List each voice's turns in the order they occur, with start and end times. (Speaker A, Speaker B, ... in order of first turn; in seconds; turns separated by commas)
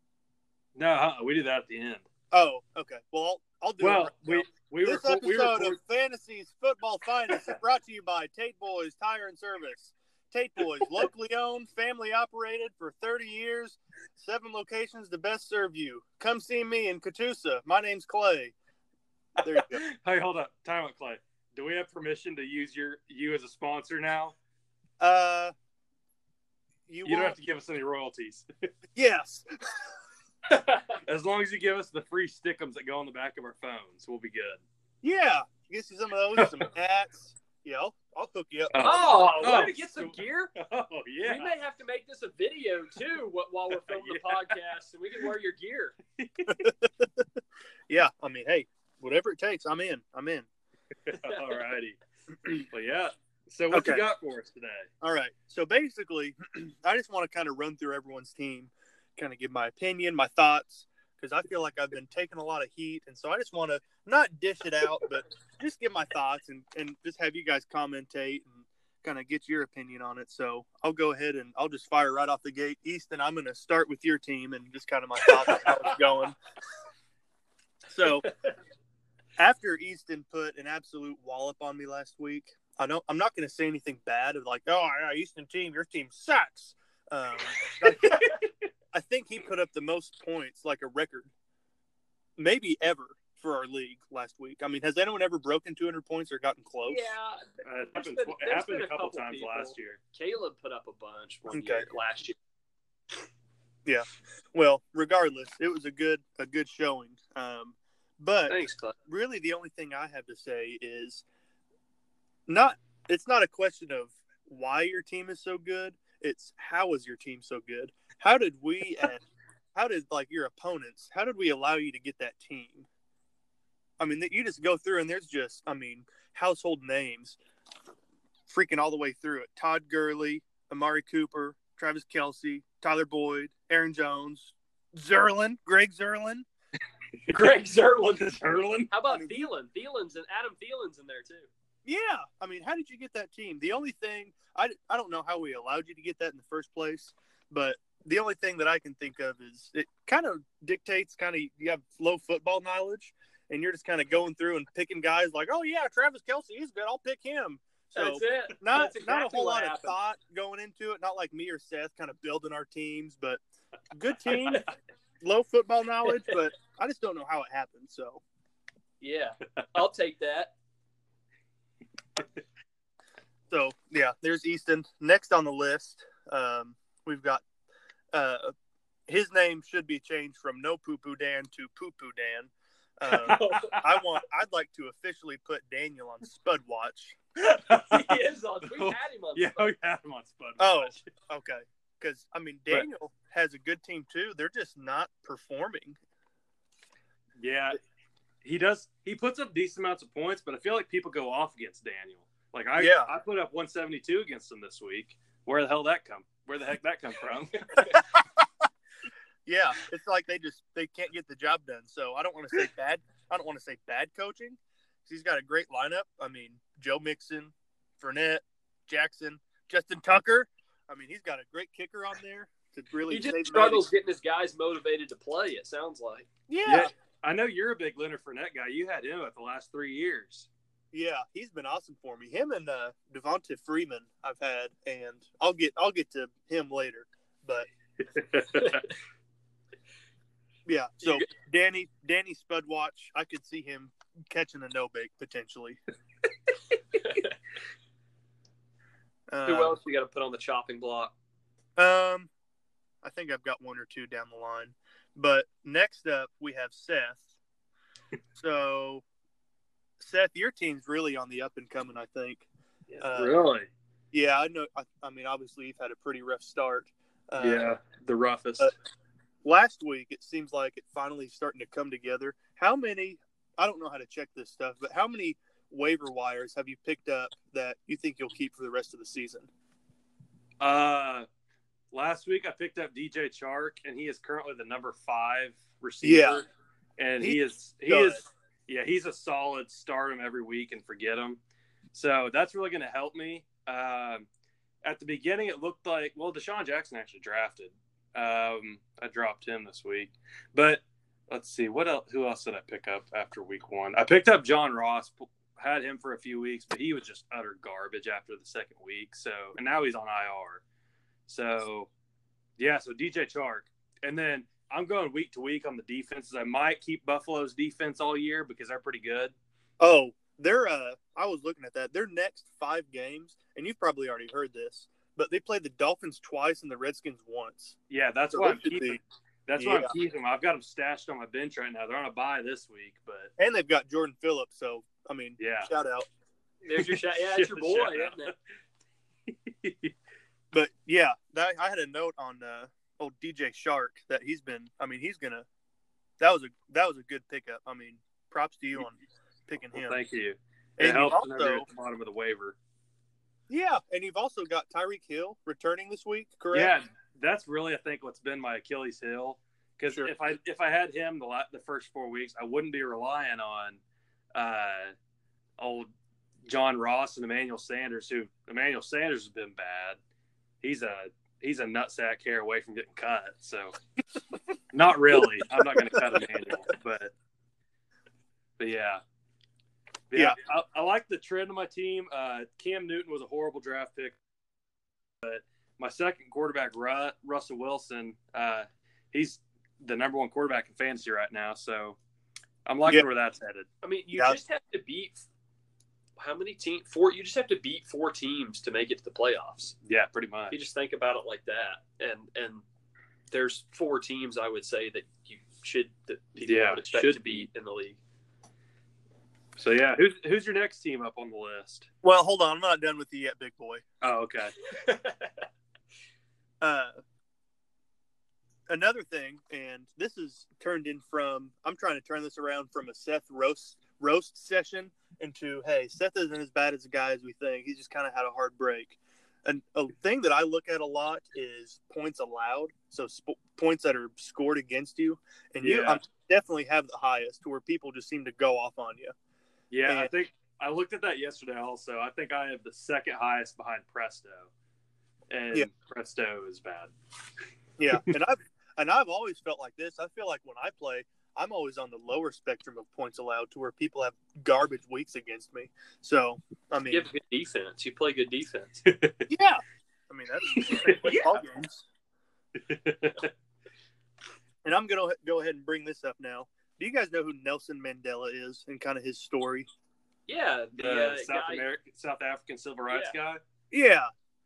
Speaker A: 0.8-2.0, Speaker B: 2.3-18.6, Speaker A: 3.8-5.8, Speaker B: 19.4-19.8, Speaker A: 19.4-24.4, Speaker B: 25.0-25.5, Speaker B: 26.9-27.4, Speaker A: 27.0-28.5, Speaker B: 28.9-29.5, Speaker C: 30.6-31.0, Speaker A: 31.1-34.6, Speaker B: 35.0-39.2, Speaker A: 36.4-36.7, Speaker A: 38.7-41.5, Speaker C: 38.8-40.5, Speaker C: 41.2-46.0, Speaker A: 43.8-44.5, Speaker A: 46.2-46.7, Speaker B: 46.5-47.3, Speaker B: 47.9-50.5, Speaker A: 51.1-52.0, Speaker C: 51.1-51.5, Speaker A: 52.7-54.9, Speaker B: 53.7-54.0, Speaker B: 55.0-76.4, Speaker B: 77.9-78.3, Speaker B: 79.4-88.3, Speaker B: 88.9-91.3, Speaker B: 92.4-97.1, Speaker C: 96.9-97.4, Speaker A: 97.6-100.0, Speaker C: 98.0-102.4, Speaker B: 101.5-101.9, Speaker B: 103.8-111.2, Speaker C: 108.5-109.0, Speaker B: 112.5-119.2, Speaker B: 119.8-122.9, Speaker B: 124.0-127.4, Speaker B: 128.5-136.5, Speaker C: 137.3-141.5, Speaker A: 138.2-139.0, Speaker B: 141.8-163.4, Speaker C: 157.9-160.0, Speaker B: 163.9-164.7, Speaker B: 165.2-168.2, Speaker C: 169.0-170.5, Speaker B: 173.5-177.4, Speaker B: 178.1-178.5, Speaker B: 179.1-187.2, Speaker C: 183.1-183.8, Speaker A: 183.2-183.8, Speaker A: 187.4-191.0, Speaker C: 187.7-189.7, Speaker B: 190.6-196.0, Speaker A: 197.4-197.8, Speaker A: 198.4-208.0, Speaker B: 202.8-203.1, Speaker B: 209.5-223.9, Speaker C: 223.1-226.3, Speaker B: 226.5-226.9, Speaker A: 226.7-230.5, Speaker B: 230.9-237.7, Speaker A: 238.1-238.8, Speaker B: 240.7-245.8, Speaker C: 246.9-247.3, Speaker B: 249.3-249.8, Speaker C: 249.5-251.1, Speaker B: 251.8-252.3, Speaker B: 253.0-257.3, Speaker B: 258.4-259.0, Speaker B: 260.0-262.5, Speaker A: 262.9-263.7, Speaker B: 263.0-263.4, Speaker B: 264.1-267.7, Speaker A: 267.4-268.7, Speaker B: 269.4-279.5, Speaker A: 280.6-281.3, Speaker A: 281.9-286.5, Speaker B: 286.0-286.4, Speaker A: 287.0-291.4, Speaker B: 287.2-288.2, Speaker A: 291.9-294.3, Speaker A: 294.8-310.6, Speaker A: 311.3-311.9, Speaker A: 312.6-319.4, Speaker B: 319.8-327.8, Speaker A: 327.9-333.3, Speaker B: 328.3-329.0, Speaker B: 329.6-329.9, Speaker B: 333.4-336.1, Speaker A: 335.4-335.7, Speaker C: 336.6-338.3, Speaker A: 336.8-338.4, Speaker A: 339.3-339.9, Speaker B: 340.5-345.5, Speaker B: 346.2-350.0, Speaker A: 349.7-352.6, Speaker B: 350.8-351.7, Speaker B: 353.5-356.7, Speaker A: 356.5-363.8, Speaker A: 364.4-364.9, Speaker A: 365.6-365.9, Speaker A: 366.4-370.0, Speaker A: 370.6-373.8, Speaker A: 374.7-377.1, Speaker B: 375.4-376.2, Speaker A: 378.6-379.0, Speaker A: 380.1-384.2, Speaker A: 385.2-392.0, Speaker A: 392.7-393.7, Speaker C: 393.8-395.2, Speaker B: 394.1-394.4, Speaker C: 396.2-399.8, Speaker A: 399.9-400.6, Speaker C: 400.5-402.6, Speaker C: 403.3-408.0, Speaker A: 406.4-407.2, Speaker A: 409.6-411.9, Speaker B: 412.0-413.8, Speaker A: 414.0-414.5, Speaker C: 414.7-415.3, Speaker B: 416.6-417.0, Speaker B: 418.7-439.1, Speaker A: 435.6-436.0, Speaker A: 439.7-444.5, Speaker B: 439.9-440.1, Speaker A: 445.3-446.9, Speaker B: 447.8-457.1, Speaker C: 456.9-458.8, Speaker A: 458.9-459.3, Speaker B: 459.3-461.9, Speaker C: 460.9-461.3, Speaker A: 462.6-463.3, Speaker B: 464.6-469.7, Speaker C: 470.3-471.6, Speaker A: 470.8-473.4, Speaker C: 472.9-473.1, Speaker B: 473.7-474.1